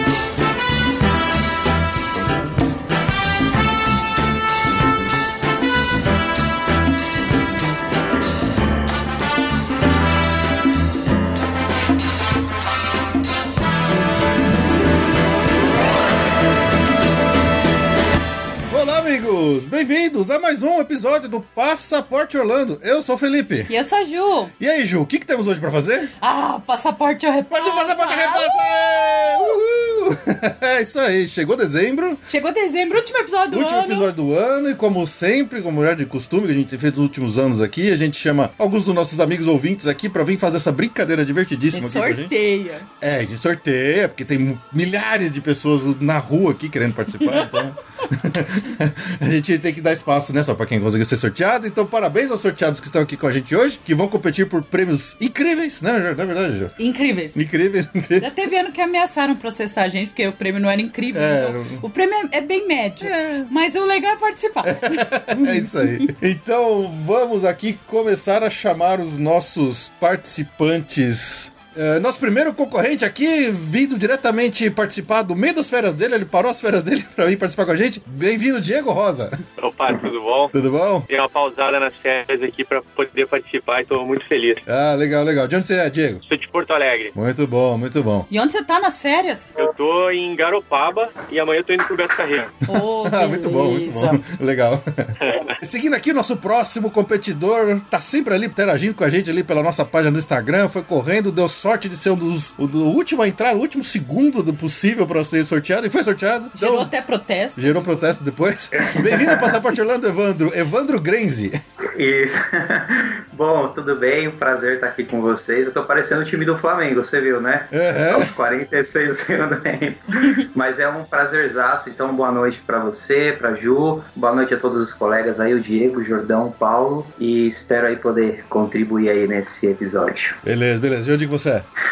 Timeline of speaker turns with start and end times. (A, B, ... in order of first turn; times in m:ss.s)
0:18.7-0:23.7 A
0:23.7-0:24.5 B
0:24.6-0:26.1 A
0:26.2-0:28.5 B
0:27.5-0:32.2 A
0:32.3-0:34.1 B
0:33.5-0:42.3 A
0:41.7-0:42.9 B
0:43.0-0:56.8 A
0:47.2-0:47.6 B
0:56.8-0:57.4 B
0:57.3-0:58.3 A
0:58.2-1:06.1 B
1:01.1-1:01.8 A
1:03.0-1:03.5 A
1:04.6-1:19.4 A
1:19.6-1:20.5 C
1:20.5-1:21.0 A
1:21.1-1:24.6 C
1:24.7-1:26.2 A
1:26.2-1:27.1 C
1:27.1-1:28.3 A
1:28.3-1:29.5 B
1:29.6-1:32.6 C
1:32.7-1:34.2 B
1:32.9-1:46.9 A
1:35.2-1:35.6 C
1:46.5-1:48.1 B
1:47.6-1:51.6 A
1:51.9-2:10.4 D
1:57.7-1:58.4 A
2:10.4-2:11.6 A